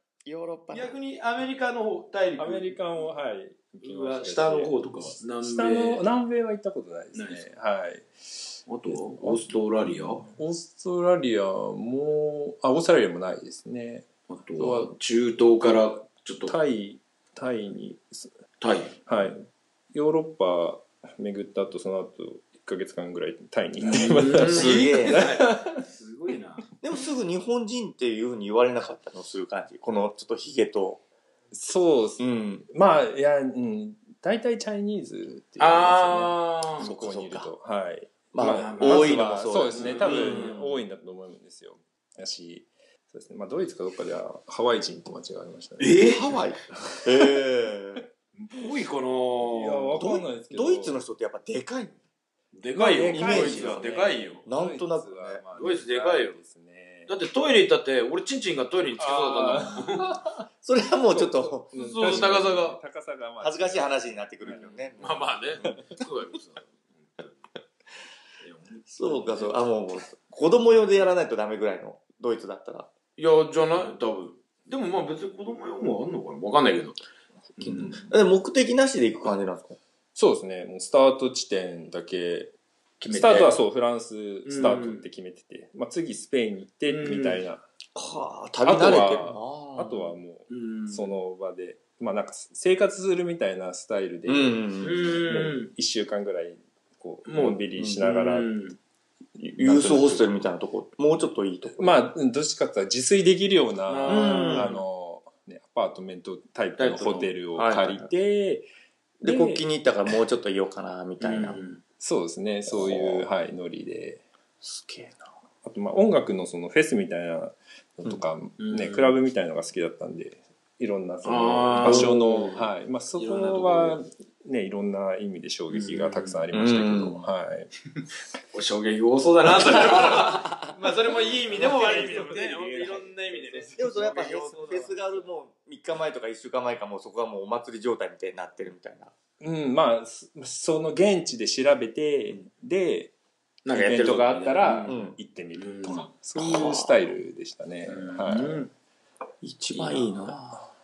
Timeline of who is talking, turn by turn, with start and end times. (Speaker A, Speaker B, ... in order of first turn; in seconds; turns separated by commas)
Speaker A: 0.2-0.9, Speaker B: 0.7-2.8, Speaker C: 2.4-14.9, Speaker B: 3.8-6.0, Speaker B: 7.1-7.4, Speaker B: 8.7-10.3, Speaker B: 14.3-16.5, Speaker C: 16.5-18.3, Speaker B: 18.6-18.9, Speaker C: 19.1-25.8, Speaker B: 23.8-26.6, Speaker A: 24.4-25.3, Speaker A: 26.8-31.0, Speaker C: 31.5-46.0, Speaker A: 32.2-32.6, Speaker B: 35.6-36.9, Speaker A: 36.8-37.5, Speaker A: 38.3-40.5, Speaker B: 38.4-40.8, Speaker B: 45.8-46.3, Speaker A: 46.0-48.1, Speaker C: 46.8-47.2, Speaker B: 48.4-50.1, Speaker C: 49.4-51.0, Speaker A: 49.9-52.0, Speaker B: 52.5-54.4, Speaker C: 52.7-57.1, Speaker A: 53.0-55.4, Speaker B: 55.5-56.4, Speaker B: 57.1-60.2, Speaker C: 59.0-60.2, Speaker A: 60.6-62.4, Speaker C: 61.1-65.0, Speaker B: 61.7-62.8, Speaker A: 63.4-65.8, Speaker B: 65.0-67.3, Speaker B: 68.4-69.5, Speaker A: 68.9-72.9, Speaker B: 73.2-77.0, Speaker B: 77.6-78.0, Speaker A: 77.6-79.8, Speaker C: 80.1-82.5, Speaker B: 83.0-83.5, Speaker C: 83.1-87.6, Speaker B: 84.5-85.0, Speaker B: 86.9-87.4, Speaker A: 87.9-90.1, Speaker C: 88.6-98.5, Speaker B: 90.5-91.1, Speaker A: 94.3-95.1, Speaker B: 94.8-95.7, Speaker B: 97.3-98.8, Speaker A: 99.4-102.0, Speaker C: 99.6-100.3, Speaker C: 101.6-108.7, Speaker B: 103.9-104.8, Speaker A: 104.1-104.7, Speaker B: 106.8-107.8, Speaker A: 107.6-108.0, Speaker A: 109.2-111.6, Speaker C: 109.2-109.6, Speaker B: 111.2-111.8, Speaker C: 112.0-114.2, Speaker A: 112.7-113.3, Speaker A: 114.6-115.3, Speaker C: 115.6-127.7, Speaker B: 118.6-119.1, Speaker B: 121.2-124.0, Speaker A: 121.8-122.1, Speaker B: 125.7-126.4, Speaker A: 126.5-127.2, Speaker B: 128.5-135.3, Speaker A: 130.0-130.5, Speaker A: 131.5-139.1, Speaker C: 139.4-143.1, Speaker B: 143.6-145.0, Speaker C: 143.7-148.7, Speaker A: 144.8-145.2, Speaker B: 145.5-146.1, Speaker A: 146.4-147.0, Speaker B: 147.9-148.7, Speaker A: 149.4-150.6, Speaker B: 149.7-150.4